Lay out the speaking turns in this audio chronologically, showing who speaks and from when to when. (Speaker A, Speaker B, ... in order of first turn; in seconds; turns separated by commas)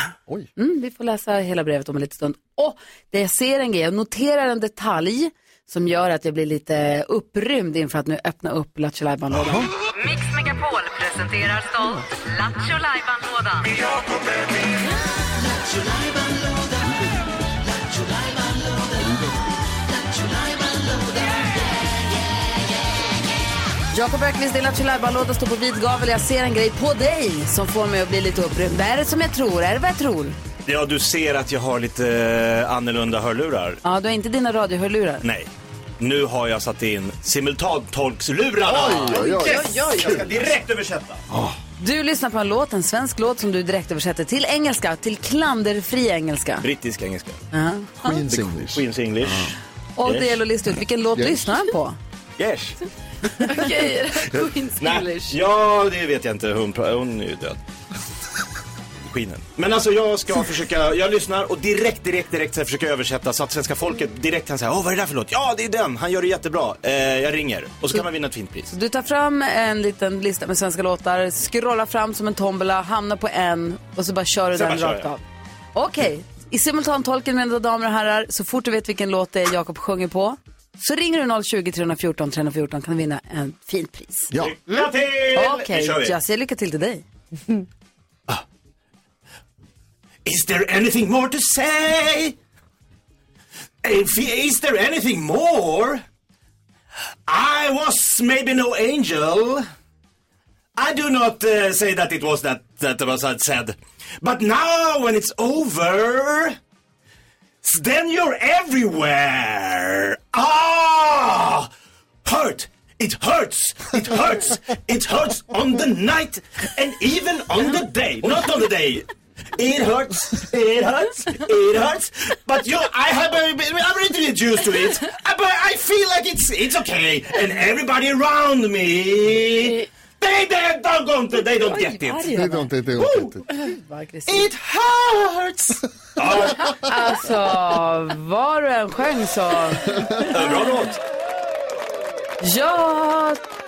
Speaker A: 0.6-9.7, Speaker B: 9.3-9.7, Speaker C: 10.0-13.7, Speaker A: 23.9-30.4, Speaker D: 30.7-33.8, Speaker A: 33.8-35.2, Speaker D: 35.2-35.5, Speaker D: 36.0-41.2, Speaker B: 38.7-40.3, Speaker E: 39.0-40.3, Speaker B: 41.3-41.6, Speaker A: 41.8-46.7, Speaker D: 46.6-47.4, Speaker A: 47.5-48.2, Speaker B: 48.0-49.5, Speaker D: 48.3-50.4, Speaker A: 50.0-52.0, Speaker B: 51.1-51.6, Speaker D: 52.4-52.8, Speaker E: 53.4-55.4, Speaker D: 54.8-57.6, Speaker D: 59.0-68.7, Speaker A: 68.7-75.2, Speaker D: 74.5-75.1, Speaker A: 75.8-84.3, Speaker D: 84.4-86.2, Speaker A: 85.3-87.0, Speaker D: 90.2-92.4, Speaker D: 93.8-96.0, Speaker D: 97.3-99.6, Speaker D: 100.8-106.6, Speaker D: 107.6-111.7, Speaker D: 112.2-132.3, Speaker A: 131.7-132.7, Speaker B: 132.3-133.4, Speaker D: 133.0-133.3, Speaker A: 133.5-134.5, Speaker D: 134.3-136.9, Speaker A: 136.7-140.3, Speaker D: 140.2-141.0, Speaker A: 142.4-143.4